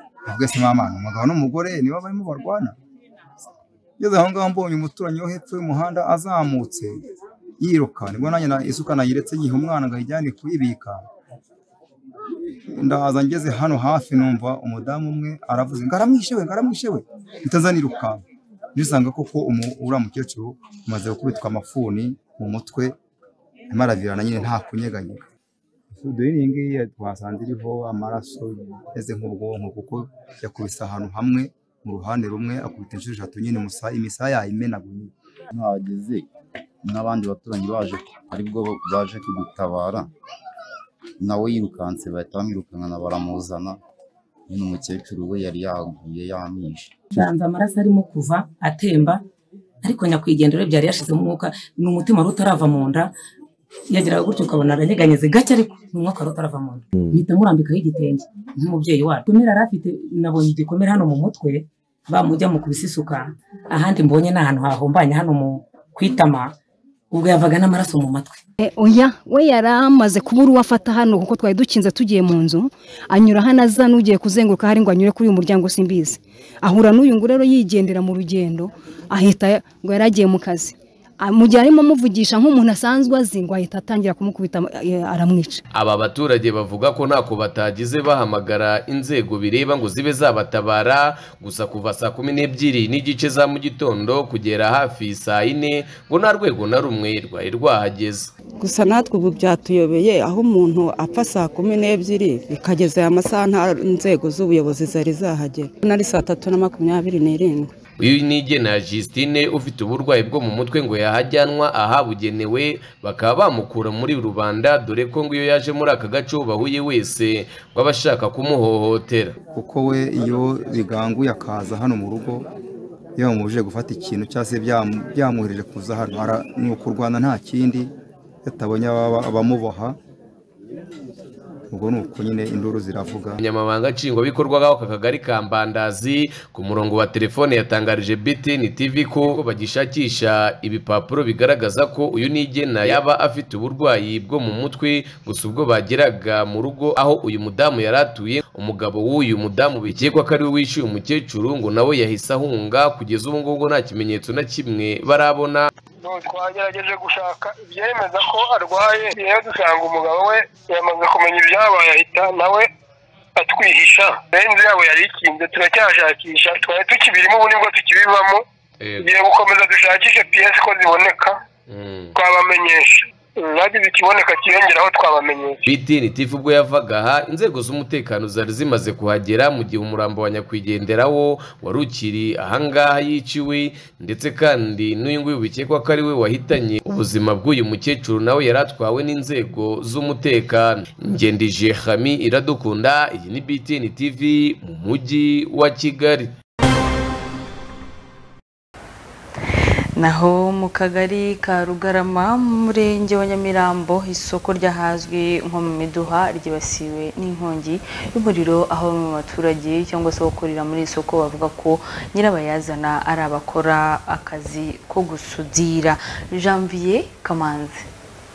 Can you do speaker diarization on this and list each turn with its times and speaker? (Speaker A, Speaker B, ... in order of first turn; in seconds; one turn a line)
Speaker A: 0.3-2.8
Speaker A: 4.0-7.0
Speaker A: 7.6-11.0
Speaker A: 12.7-18.2
Speaker A: 18.8-22.9
Speaker A: 23.7-25.2
Speaker A: 25.9-35.1
Speaker B: 35.6-36.2
Speaker B: 36.9-40.0
Speaker B: 41.2-43.8
Speaker B: 44.5-46.9
Speaker C: 47.1-49.2
Speaker C: 49.8-53.1
Speaker C: 53.9-66.5
Speaker C: 67.1-68.4
Speaker D: 68.6-85.6
Speaker E: 85.7-98.3
Speaker F: 98.6-107.7
Speaker E: 108.0-119.4
Speaker A: 119.5-122.5
Speaker A: 123.2-127.9
Speaker A: 128.4-130.0
Speaker A: 131.7-133.4
Speaker E: 133.4-155.7
Speaker G: 156.0-162.7
Speaker G: 163.4-168.4
Speaker E: 168.8-169.1
Speaker G: 169.0-171.4
Speaker E: 171.7-172.2
Speaker G: 172.2-175.6
Speaker E: 175.7-196.3
Speaker H: 200.0-217.8